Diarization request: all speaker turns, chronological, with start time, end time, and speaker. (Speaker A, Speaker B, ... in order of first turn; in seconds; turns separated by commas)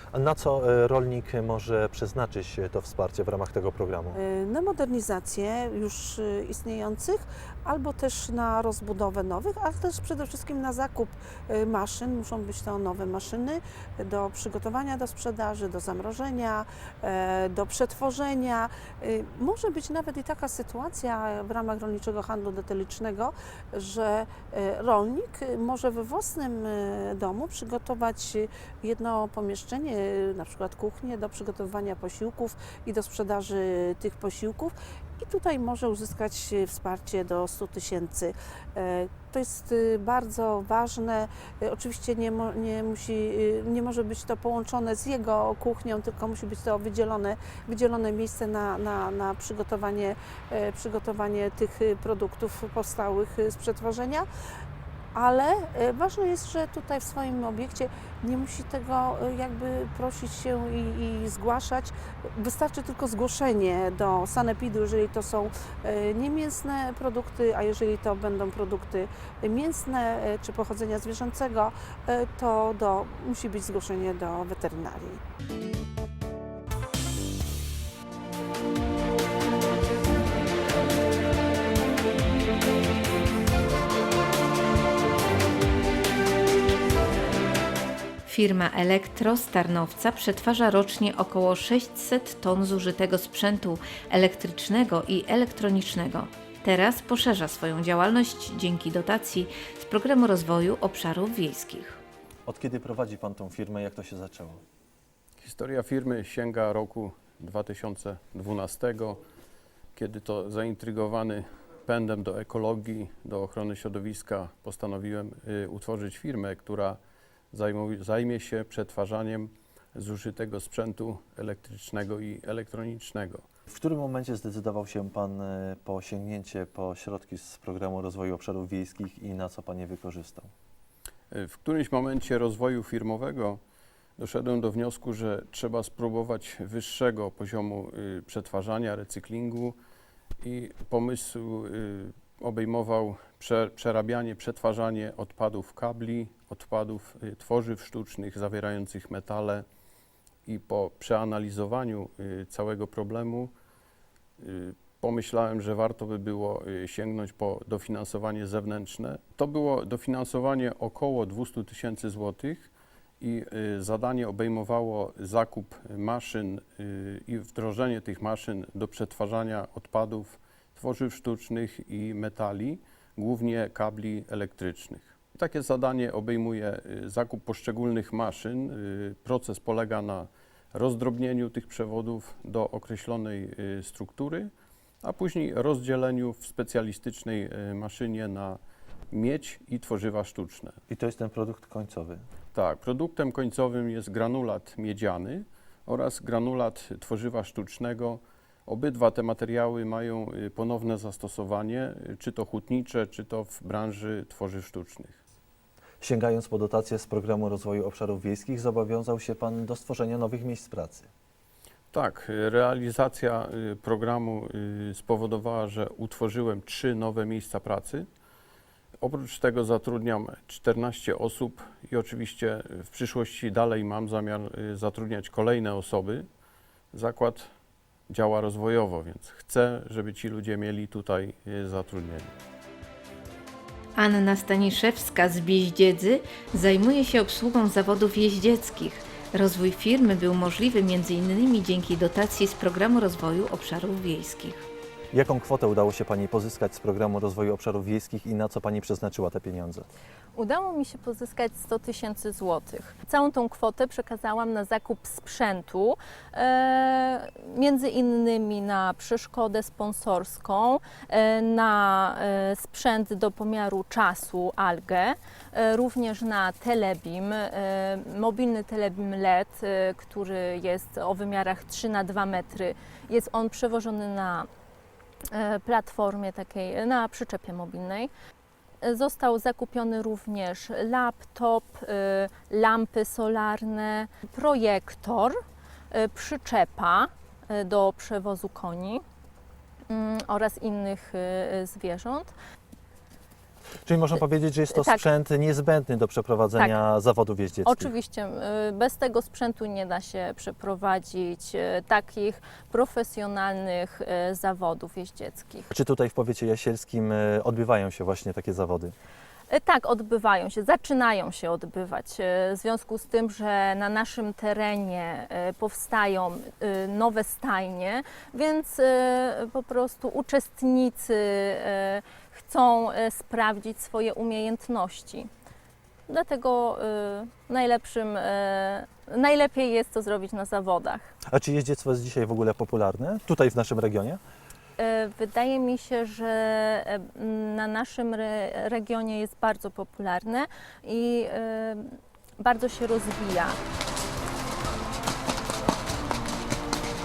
Speaker A: 0.1-4.2, Speaker B: 4.1-54.3, Speaker B: 55.1-75.2, Speaker C: 88.3-102.0, Speaker A: 102.5-104.6, Speaker D: 105.4-109.2, Speaker D: 110.0-117.0, Speaker D: 117.5-123.5, Speaker A: 123.7-130.5, Speaker D: 131.3-133.6, Speaker D: 134.2-139.8, Speaker D: 140.4-149.7, Speaker D: 150.5-153.5, Speaker D: 154.4-184.5, Speaker D: 185.0-190.8, Speaker A: 190.9-192.2, Speaker D: 192.5-205.2, Speaker A: 206.0-211.1, Speaker D: 211.9-218.1, Speaker D: 219.0-226.3, Speaker D: 226.9-227.5, Speaker D: 228.1-232.3, Speaker C: 233.9-244.7, Speaker A: 245.1-249.9, Speaker E: 250.3-274.5, Speaker E: 275.3-278.1, Speaker E: 278.8-285.4, Speaker E: 285.9-289.0, Speaker E: 289.9-292.3, Speaker A: 293.9-297.9, Speaker E: 294.7-295.0, Speaker E: 297.6-305.7, Speaker A: 305.7-308.9, Speaker E: 309.5-325.3, Speaker E: 326.1-331.1, Speaker A: 331.3-334.2, Speaker E: 334.8-343.6